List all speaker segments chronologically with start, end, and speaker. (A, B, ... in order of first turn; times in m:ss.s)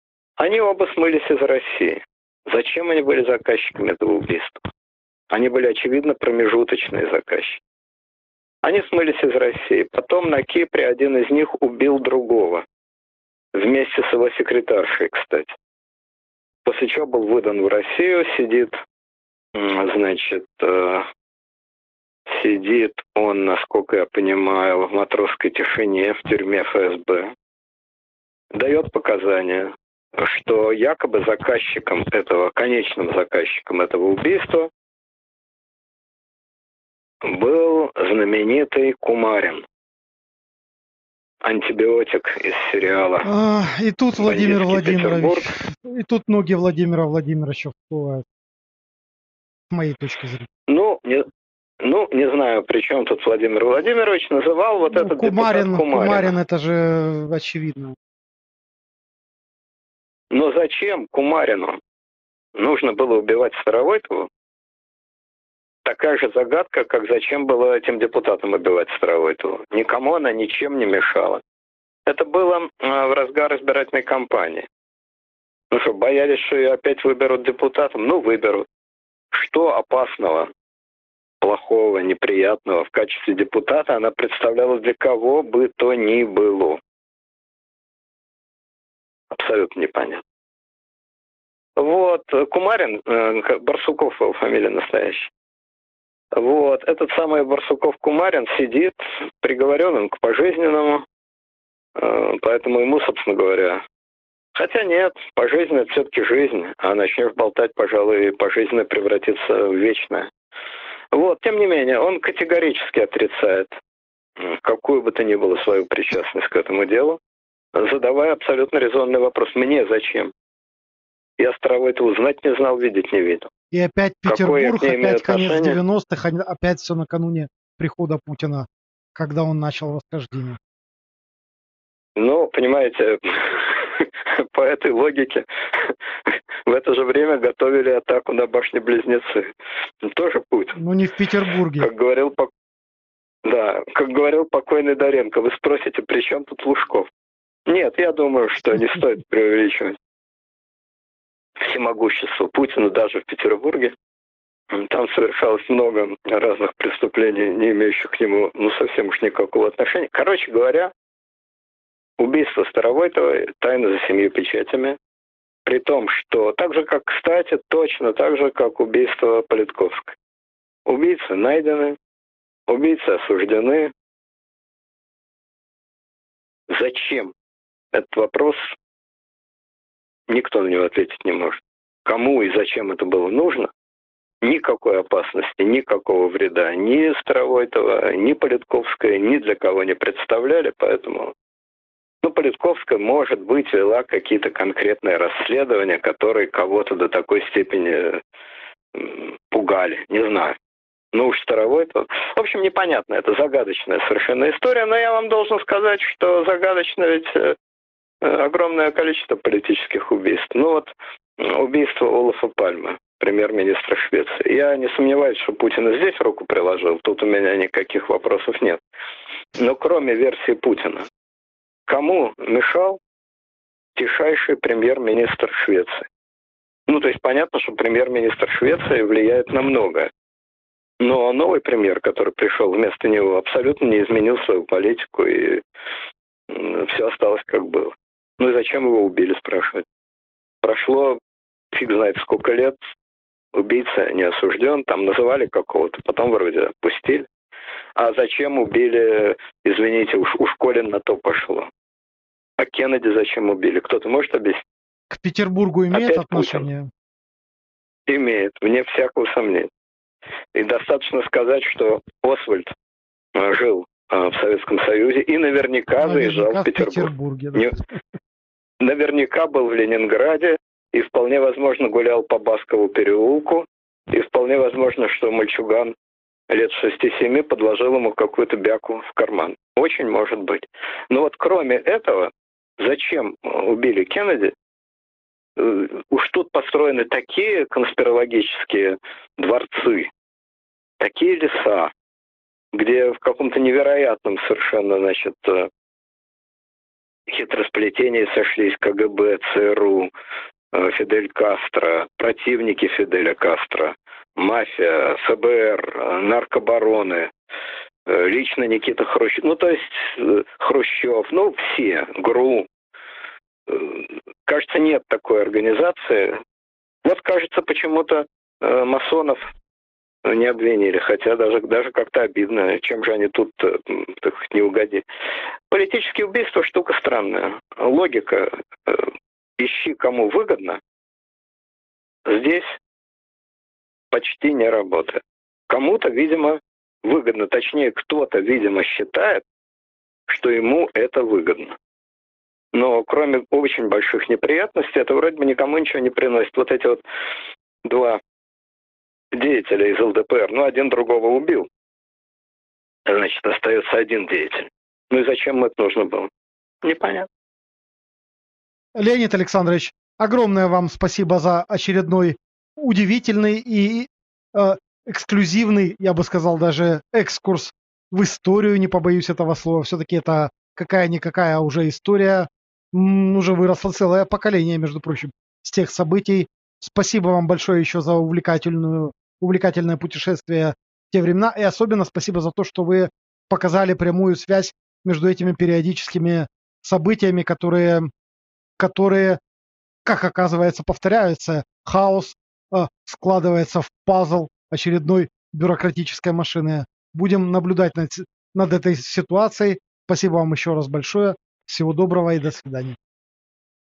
0:00.4-0:04.6 A
0:05.3-0:07.6 A
0:08.6-0:12.6 A
0:13.5-0:15.6 A
0:16.6-0:18.8 A
0:19.5-0:21.1 A
0:22.3-0:27.3 A
0:28.5-0:34.7 A
0:37.2-0:39.7 A
0:41.4-0:43.3 A
0:43.2-0:48.2 B
0:44.2-0:45.5 A
0:49.7-0:50.5 B
0:50.7-0:51.3 A
0:51.8-0:56.4 A
0:54.9-0:58.0 B
1:00.3-1:01.8 A
1:02.6-1:04.3 A
1:05.8-1:11.4 A
1:12.1-1:14.7 A
1:15.7-1:18.7 A
1:19.3-1:20.5 A
1:21.4-1:26.8 A
1:29.3-1:30.2 A
1:31.8-1:35.3 A
1:36.3-1:41.0 A
1:42.0-1:43.8 A
1:44.6-1:50.3 A
1:51.1-1:53.8 A
1:54.4-1:57.2 A
1:57.7-2:00.3 A
2:01.4-2:03.5 A
2:03.7-2:10.6 B
2:04.3-2:05.8 A
2:12.2-2:19.5 A
2:20.0-2:20.8 A
2:20.8-2:21.9 B
2:21.8-2:22.5 A
2:23.4-2:27.1 A
2:27.7-2:30.0 A
2:31.6-2:34.0 A
2:34.7-2:40.9 A
2:42.2-2:45.0 A
2:45.6-2:50.2 A
2:50.9-2:52.0 A
2:52.7-2:53.9 A
2:56.7-2:57.3 A
2:57.9-2:58.8 A
3:00.3-3:03.7 A
3:04.4-3:11.3 A
3:12.2-3:18.2 A
3:18.9-3:20.6 A
3:21.1-3:27.6 A
3:28.2-3:38.8 A
3:39.6-3:41.1 A
3:41.9-3:43.0 A
3:44.0-3:46.1 A
3:46.9-3:50.1 A
3:51.0-3:55.6 A
3:56.5-3:59.8 A
4:00.6-4:01.2 A
4:01.7-4:02.8 A
4:03.5-4:07.3 A
4:08.0-4:11.7 A
4:12.6-4:14.6 A
4:15.1-4:16.9 B
4:15.9-4:16.7 A
4:18.1-4:19.7 A
4:20.5-4:22.7 A
4:23.4-4:27.8 A
4:26.0-4:28.0 B
4:28.8-4:35.9 A
4:36.5-4:44.6 A
4:45.6-4:50.1 A
4:51.0-4:51.9 A
4:52.7-4:55.7 A
4:57.3-5:00.1 A
5:00.7-5:07.3 A
5:08.1-5:12.7 A
5:13.7-5:16.4 A
5:17.0-5:19.4 A
5:20.2-5:25.0 A
5:25.7-5:30.8 A
5:32.2-5:32.8 A
5:34.1-5:39.4 A
5:40.3-5:41.8 A
5:42.7-5:47.0 A
5:47.8-5:48.2 A
5:49.3-5:51.7 A
5:53.1-5:56.3 A
5:56.8-5:57.3 A
5:59.0-6:28.1 B
6:28.8-6:29.4 B
6:30.0-6:43.0 B